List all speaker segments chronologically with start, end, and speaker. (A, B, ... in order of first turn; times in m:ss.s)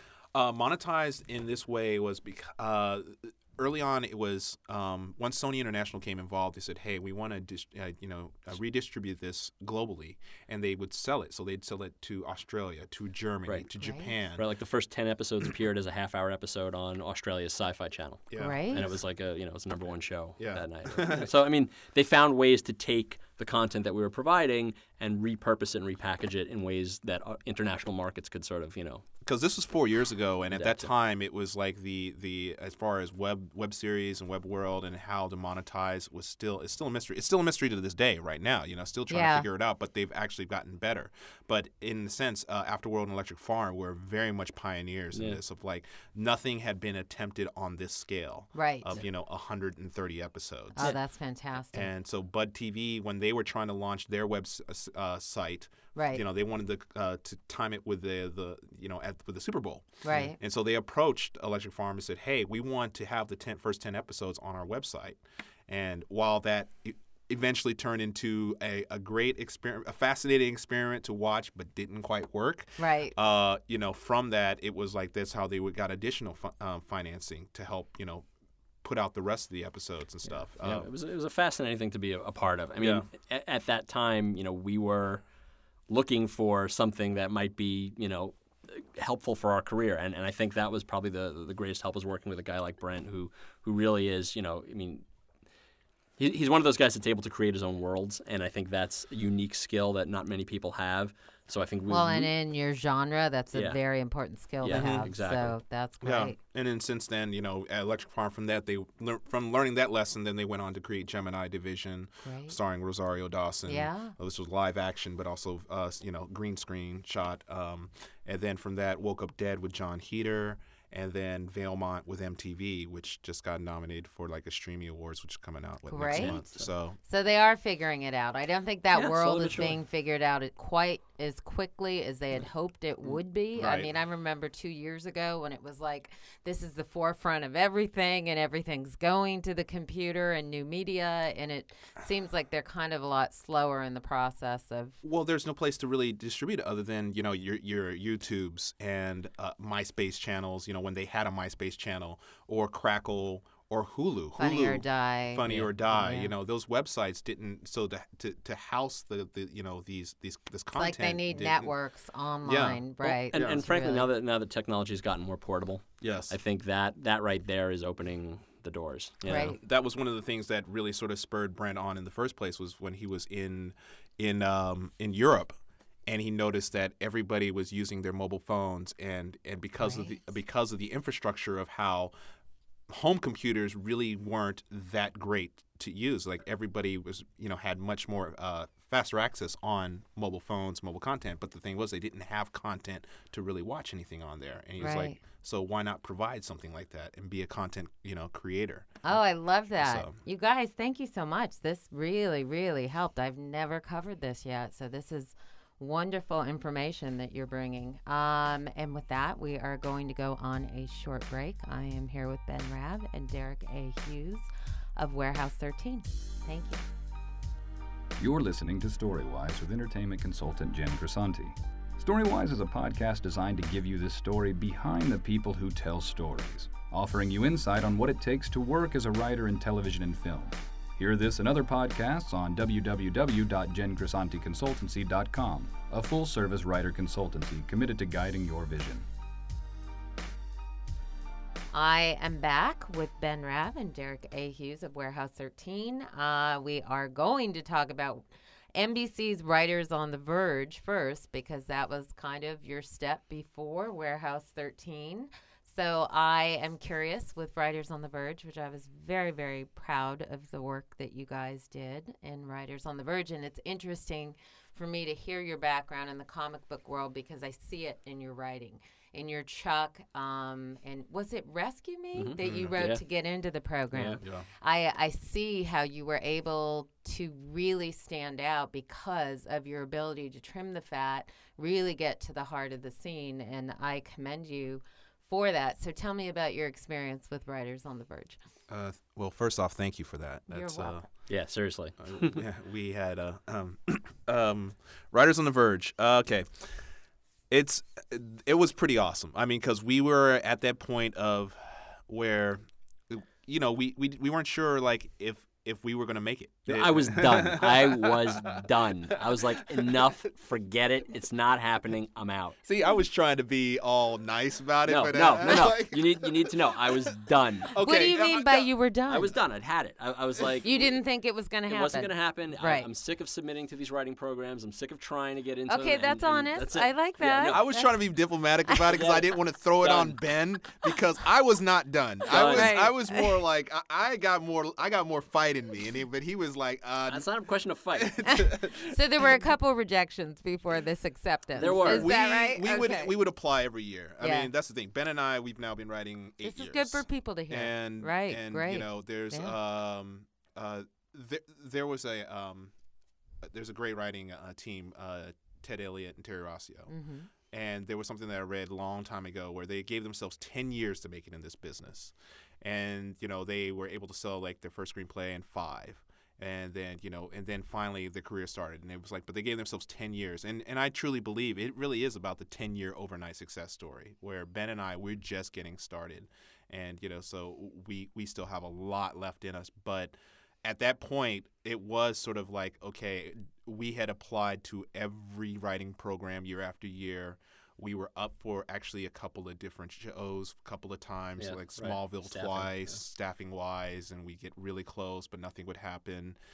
0:00.3-0:14.4 A
0:13.8-0:14.1 B
0:14.4-0:29.0 C
0:18.3-0:19.0 A
0:18.4-0:18.8 B
0:20.4-0:21.3 A
0:29.2-0:51.0 A
0:30.5-0:30.9 C
0:39.1-0:39.4 B
0:45.1-0:45.4 C
0:48.5-0:49.0 B
0:50.7-0:51.9 B
0:51.7-1:18.3 A
0:55.9-0:56.2 B
1:00.0-1:00.4 B
1:12.8-1:13.1 B
1:18.8-1:20.9 A
1:20.4-1:25.2 C
1:22.8-1:23.1 A
1:25.9-1:35.0 C
1:36.2-1:42.3 C
1:41.9-1:46.4 B
1:43.5-1:43.8 C
1:44.6-1:45.6 C
1:44.7-1:45.0 A
1:46.0-2:07.0 A
1:52.2-1:52.6 B
1:53.7-1:54.1 B
2:05.9-2:06.4 B
2:06.1-2:06.7 C
2:07.0-2:25.0 B
2:08.9-2:09.8 C
2:13.6-2:13.9 A
2:25.0-2:41.7 A
2:34.4-2:36.3 B
2:40.7-2:44.1 B
2:42.4-2:42.8 A
2:43.0-2:49.6 C
2:43.3-2:43.6 A
2:46.0-2:46.4 A
2:49.3-2:49.6 B
2:49.3-3:02.1 A
2:59.8-3:00.1 B
3:02.9-3:19.1 A
3:14.8-3:15.2 B
3:19.0-3:36.8 B
3:19.8-3:20.2 A
3:38.2-3:59.0 D
4:01.7-4:48.4 B
4:32.2-4:33.0 C
4:32.4-4:32.7 A
4:33.9-4:34.2 C
4:34.2-4:34.5 A
4:48.7-4:51.0 A
4:50.5-4:51.0 B
4:51.3-4:52.4 C
4:52.0-4:56.8 A
4:57.5-5:10.1 A
5:06.7-5:12.6 C
5:12.6-5:17.1 A
5:14.8-5:17.7 C
5:17.7-5:18.7 A
5:17.8-5:19.3 B
5:19.1-5:20.7 C
5:20.6-5:22.9 B
5:21.7-5:27.6 C
5:25.7-5:27.9 B
5:27.4-5:37.3 A
5:28.9-5:29.2 C
5:29.8-5:30.2 C
5:32.3-5:32.8 C
5:32.5-5:33.3 B
5:37.1-5:38.2 C
5:37.9-5:38.9 A
5:38.2-5:43.1 B
5:41.6-5:42.1 C
5:41.6-5:52.7 A
5:44.2-5:44.5 B
5:46.4-5:49.5 B
5:53.4-5:56.9 A
5:56.9-5:57.3 B
5:57.5-6:36.4 A
6:31.4-6:32.9 C